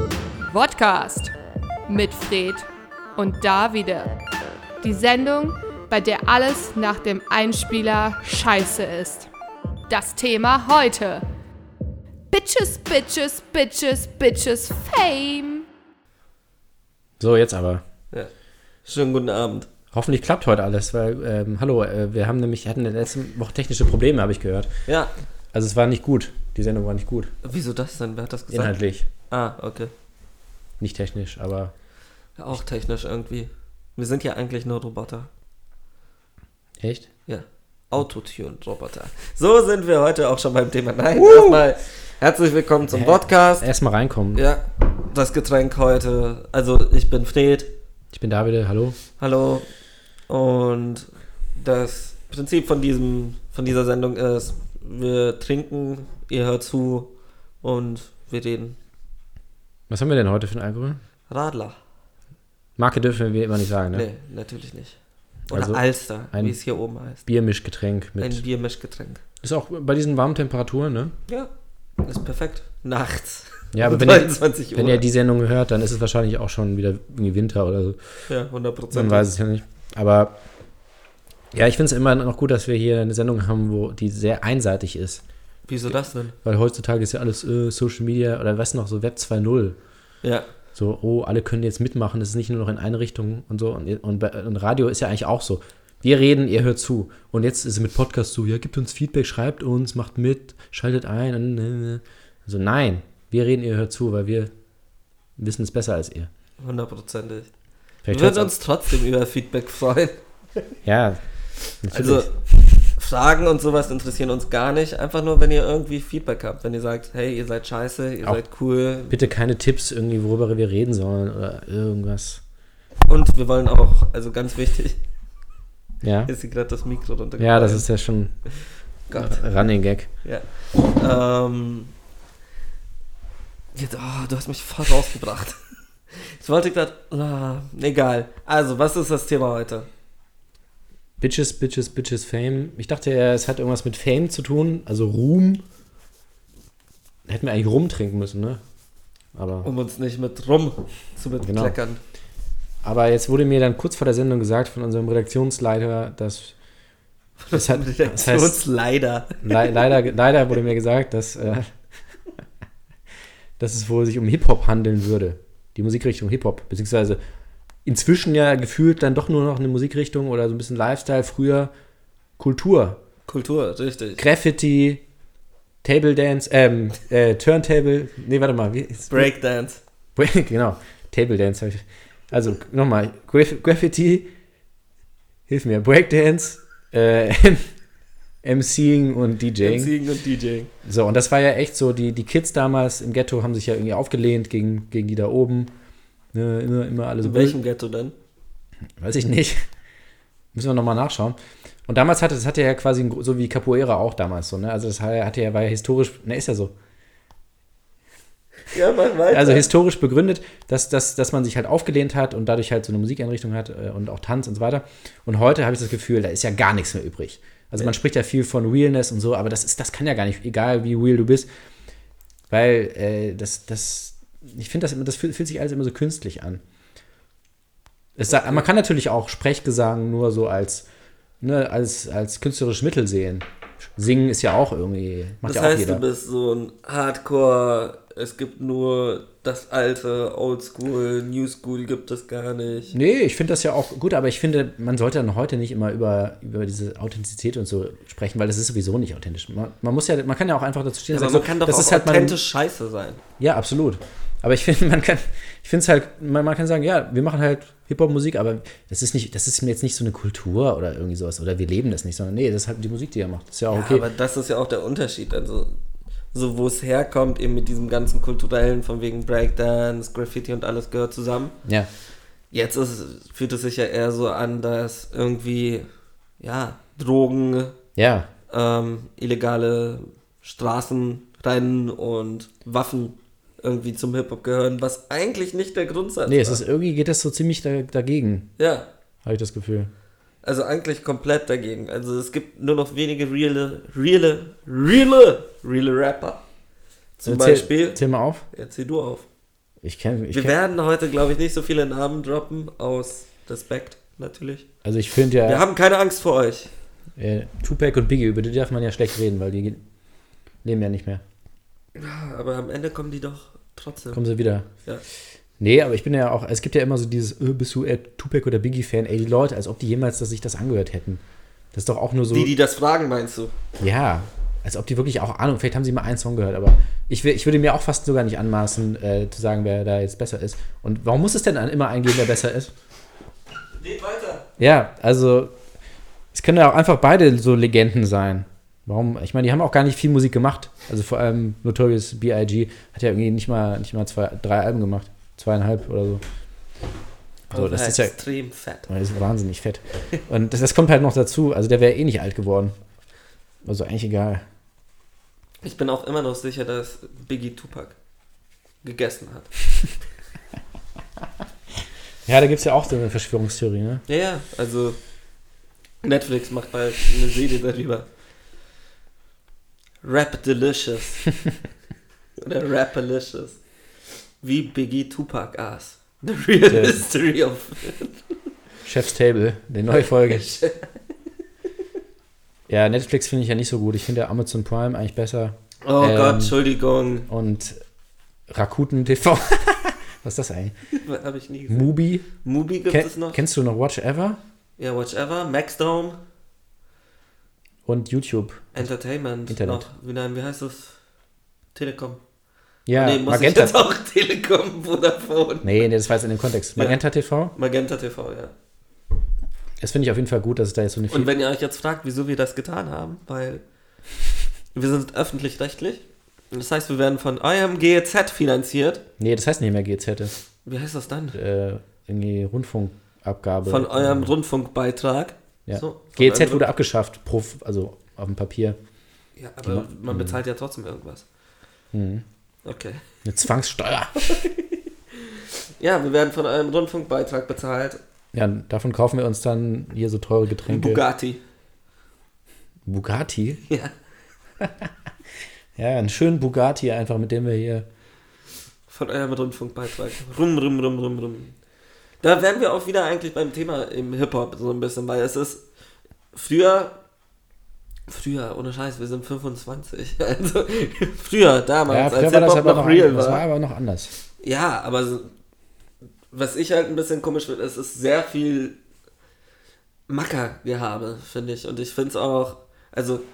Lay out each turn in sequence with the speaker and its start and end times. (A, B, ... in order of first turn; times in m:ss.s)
0:00.4-0:01.3 A
0:01.9-0:04.2 A
0:04.8-0:09.3 A
0:09.9-0:11.2 A
0:12.3-0:15.7 A
0:17.2-0:17.8 B
0:18.8-0:19.7 C
0:19.9-0:24.7 B
0:25.5-0:27.3 B
0:27.4-0:29.9 C
0:28.5-0:29.1 B
0:30.8-0:31.7 B
0:32.4-0:35.3 C
0:36.8-0:37.1 B
0:37.3-0:43.7 C
0:41.2-0:41.6 B
0:42.9-0:44.4 B
0:44.3-0:47.7 C
0:48.1-0:49.0 B
0:49.2-0:49.7 C
0:50.3-0:57.1 C
0:57.6-0:58.8 C
0:59.9-1:01.0 B
1:01.3-1:01.8 C
1:02.8-1:04.0 B
1:03.9-1:05.0 C
1:05.5-1:06.6 B
1:05.5-1:07.2 C
1:07.2-1:08.4 B
1:08.2-1:09.2 C
1:09.4-1:11.1 B
1:12.0-1:15.0 C
1:13.7-1:18.0 B
1:18.3-1:19.3 C
1:18.9-1:20.4 B
1:21.5-1:25.2 B
1:25.7-1:26.3 C
1:26.4-1:29.8 B
1:30.2-1:30.5 C
1:30.8-1:44.5 B
1:45.4-1:46.3 B
1:46.6-1:47.5 C
1:48.0-1:48.5 B
1:48.1-1:50.2 C
1:50.8-1:51.2 B
1:51.8-1:52.7 B
1:51.9-1:52.3 C
1:53.0-1:59.2 C
1:59.1-2:02.4 B
2:03.1-2:05.0 C
2:06.0-2:06.3 B
2:06.2-2:07.9 C
2:07.4-2:08.3 B
2:08.5-2:09.4 C
2:09.1-2:10.1 B
2:10.2-2:11.9 C
2:13.7-2:19.9 C
2:21.2-2:25.6 B
2:27.2-2:28.6 B
2:29.3-2:29.7 B
2:29.6-2:32.0 C
2:31.4-2:31.8 B
2:32.8-2:36.5 B
2:37.4-2:39.9 C
2:37.5-2:38.6 B
2:39.4-2:41.7 B
2:43.6-2:47.2 B
2:47.8-2:51.7 B
2:52.4-2:53.0 B
2:53.3-2:54.2 C
2:54.2-2:55.0 B
2:55.8-2:59.3 B
2:59.1-2:59.8 C
3:00.2-3:04.3 B
3:05.5-3:07.6 B
3:08.4-3:09.9 B
3:09.6-3:10.7 C
3:10.8-3:15.7 B
3:16.3-3:17.6 B
3:17.2-3:18.1 C
3:19.0-3:19.6 B
3:20.5-3:26.7 B
3:28.7-3:29.7 C
3:29.3-3:41.5 B
3:42.5-3:46.6 B
3:48.2-3:50.8 B
3:48.3-3:48.6 C
3:51.4-3:56.0 B
3:55.4-4:02.9 C
4:02.9-4:12.4 B
4:11.1-4:13.2 C
4:13.4-4:24.0 B
4:23.7-4:25.8 C
4:26.3-4:31.5 C
4:32.5-4:35.8 C
4:36.4-4:37.8 C
4:38.0-4:38.3 B
4:38.5-4:46.6 C
4:46.3-4:48.5 B
4:48.6-4:48.9 C
4:49.2-4:49.9 B
4:50.4-4:56.4 C
4:57.2-4:58.0 C
4:57.2-4:58.4 B
4:58.5-4:59.3 C
4:59.8-5:00.5 B
5:00.3-5:04.6 C
5:04.8-5:05.6 B
5:05.4-5:06.7 C
5:07.2-5:09.8 B
5:10.6-5:11.2 B
5:12.0-5:14.2 C
5:14.1-5:14.7 B
5:15.6-5:21.2 B
5:21.7-5:22.5 B
5:22.3-5:23.5 C
5:23.8-5:32.7 B
5:33.8-5:34.4 C
5:34.6-5:35.5 B
5:36.3-5:46.2 B
5:47.5-5:48.2 B
5:47.5-5:48.9 C
5:48.9-5:52.7 B
5:53.6-5:54.4 B
5:55.6-5:58.0 C
5:58.8-5:59.5 C
6:02.2-6:04.0 B
6:04.1-6:05.0 C
6:06.0-6:08.0 C
6:10.0-6:11.2 C
6:12.4-6:13.6 C
6:14.4-6:18.2 C
6:16.7-6:17.0 B
6:18.8-6:20.4 B
6:19.9-6:20.9 C
6:22.7-6:26.6 B
6:25.8-6:27.3 C
6:27.3-6:27.8 B
6:28.5-6:30.7 B
6:30.9-6:33.4 C
6:31.7-6:32.3 B
6:32.9-6:34.4 B
6:34.8-6:36.2 C
6:37.8-6:38.9 B
6:38.7-6:41.0 C
6:39.5-6:39.8 B
6:41.7-6:42.2 C
6:42.8-6:43.8 B
6:42.9-6:45.9 C
6:45.6-6:47.5 B
6:47.5-6:48.5 C
6:49.8-6:51.3 B
6:51.1-6:53.6 C
6:54.7-6:59.0 C
6:59.2-7:00.3 B
7:00.6-7:01.4 C
7:01.3-7:04.3 B
7:03.6-7:06.7 C
7:05.7-7:08.8 B
7:09.4-7:11.2 C
7:09.6-7:10.4 B
7:11.9-7:12.2 B
7:12.6-7:13.0 C
7:13.2-7:14.2 B
7:14.2-7:18.0 C
7:18.3-7:21.0 B
7:20.7-7:21.4 C
7:22.8-7:23.6 B
7:23.7-7:23.9 C
7:24.6-7:24.9 B
7:25.8-7:27.9 B
7:28.9-7:31.6 C
7:32.2-7:35.6 C
7:36.3-7:36.9 C
7:38.1-7:43.4 C
7:41.9-7:44.1 B
7:44.4-7:45.3 C
7:46.3-7:48.8 C
7:50.1-7:53.2 C